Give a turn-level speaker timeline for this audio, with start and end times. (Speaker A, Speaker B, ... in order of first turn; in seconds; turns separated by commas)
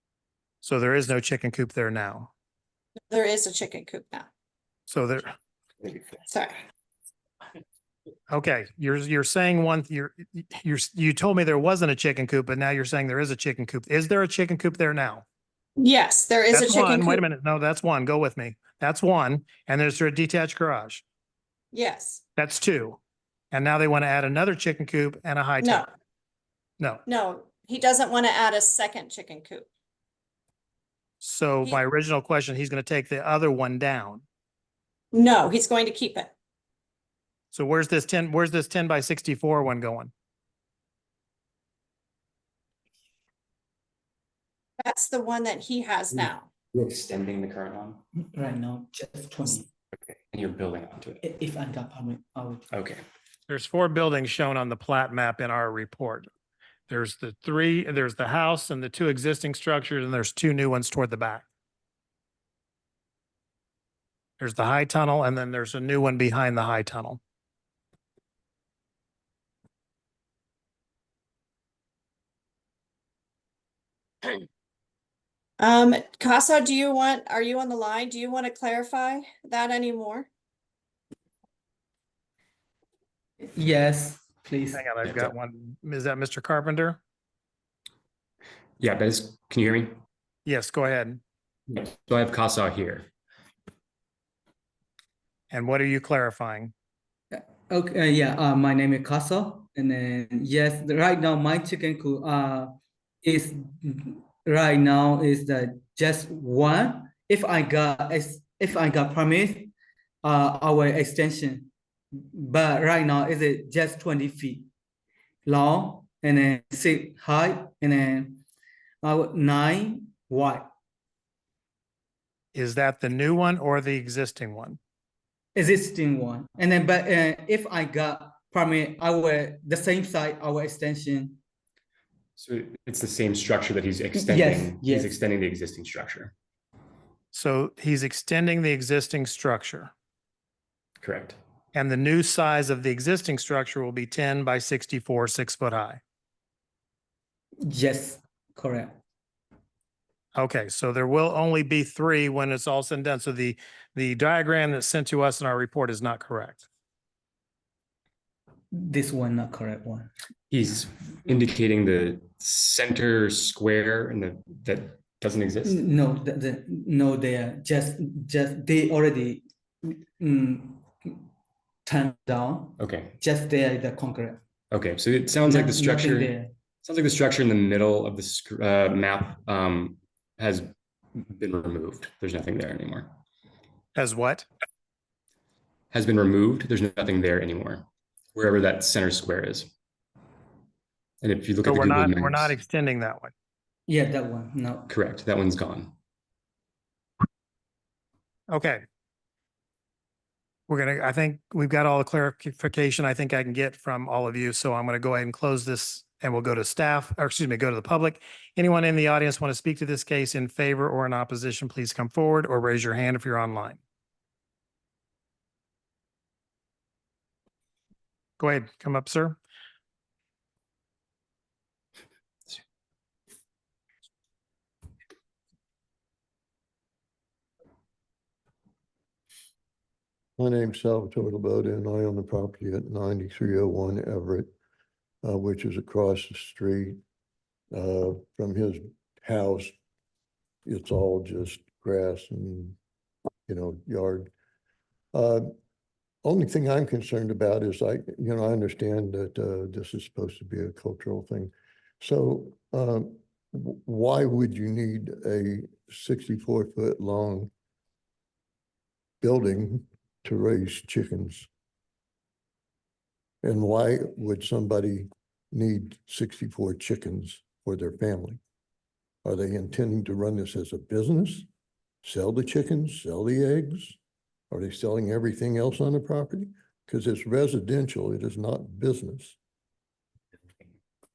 Speaker A: 0.6-2.3, Speaker B: 3.1-4.3, Speaker A: 4.9-5.3, Speaker B: 6.3-6.5, Speaker A: 8.3-15.2, Speaker B: 15.8-17.2, Speaker A: 16.5-21.0, Speaker B: 21.7-22.2, Speaker A: 22.4-23.0, Speaker A: 23.5-25.9, Speaker B: 25.6-25.9, Speaker B: 27.1-29.7, Speaker A: 31.2-34.2, Speaker B: 35.1-36.3, Speaker A: 37.5-40.1, Speaker B: 44.8-46.5, Speaker C: 46.7-48.0, Speaker D: 48.1-49.7, Speaker C: 50.1-51.2, Speaker D: 51.2-52.7, Speaker C: 52.7-53.0, Speaker A: 53.5-56.3, Speaker A: 56.9-61.5, Speaker A: 64.4-67.2, Speaker B: 75.6-80.3, Speaker D: 83.5-84.8, Speaker A: 84.7-87.0, Speaker C: 85.0-85.3, Speaker C: 88.8-90.0, Speaker A: 90.5-91.2, Speaker C: 91.7-93.1, Speaker A: 95.5-96.7, Speaker D: 97.3-114.7, Speaker D: 115.5-118.4, Speaker D: 119.0-120.7, Speaker A: 122.5-124.8, Speaker D: 125.5-131.4, Speaker C: 132.4-136.3, Speaker D: 134.1-135.2, Speaker A: 137.3-139.9, Speaker C: 141.0-141.4, Speaker A: 141.7-146.0, Speaker D: 147.6-149.0, Speaker A: 150.3-156.6, Speaker D: 158.7-160.1, Speaker C: 160.5-165.8, Speaker D: 165.6-171.2, Speaker D: 171.8-174.4, Speaker C: 172.8-173.2, Speaker C: 174.7-183.1, Speaker D: 175.5-176.5, Speaker A: 183.9-184.5, Speaker C: 185.9-189.7, Speaker C: 191.2-192.5, Speaker A: 191.7-193.3, Speaker D: 193.9-194.9, Speaker C: 194.9-195.9, Speaker A: 198.5-198.8, Speaker A: 200.7-213.8, Speaker A: 218.4-219.4, Speaker E: 230.4-234.5, Speaker E: 235.2-237.0, Speaker E: 237.7-239.7, Speaker E: 240.7-242.8, Speaker E: 243.5-244.3, Speaker E: 245.1-245.5, Speaker E: 246.2-251.5, Speaker E: 252.0-257.5, Speaker E: 259.2-261.5, Speaker E: 263.4-268.4, Speaker E: 269.2-271.5, Speaker E: 272.0-274.0, Speaker E: 274.5-279.4